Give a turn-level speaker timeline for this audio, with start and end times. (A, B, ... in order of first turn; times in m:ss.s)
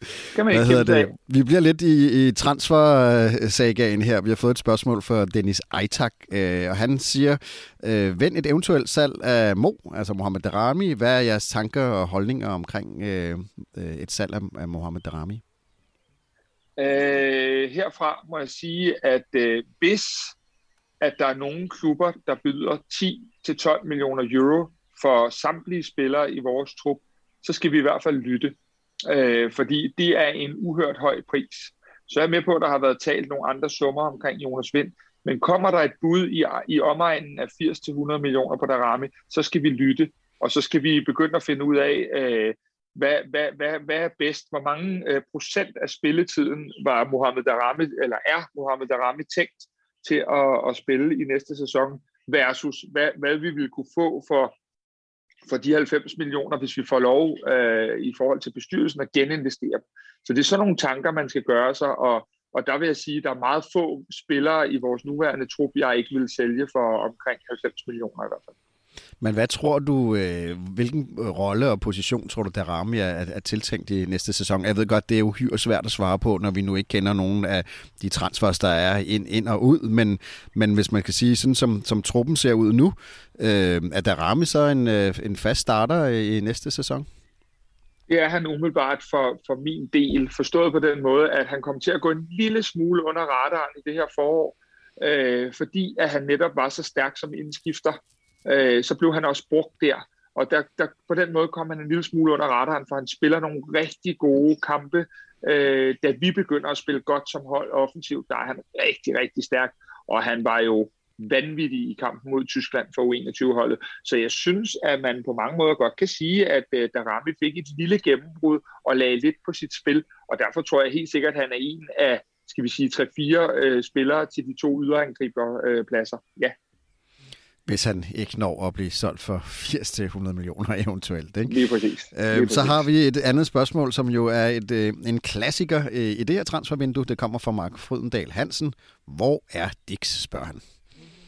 0:00.3-0:01.1 A
0:00.5-0:15.4 B
0:16.8-0:20.4 A
0:21.0-0:54.5 A
0:55.5-1:08.5 A
1:09.2-1:27.1 B
1:28.1-2:06.5 A
2:07.7-2:11.6 B
2:11.5-2:12.8 A
2:12.1-2:20.6 B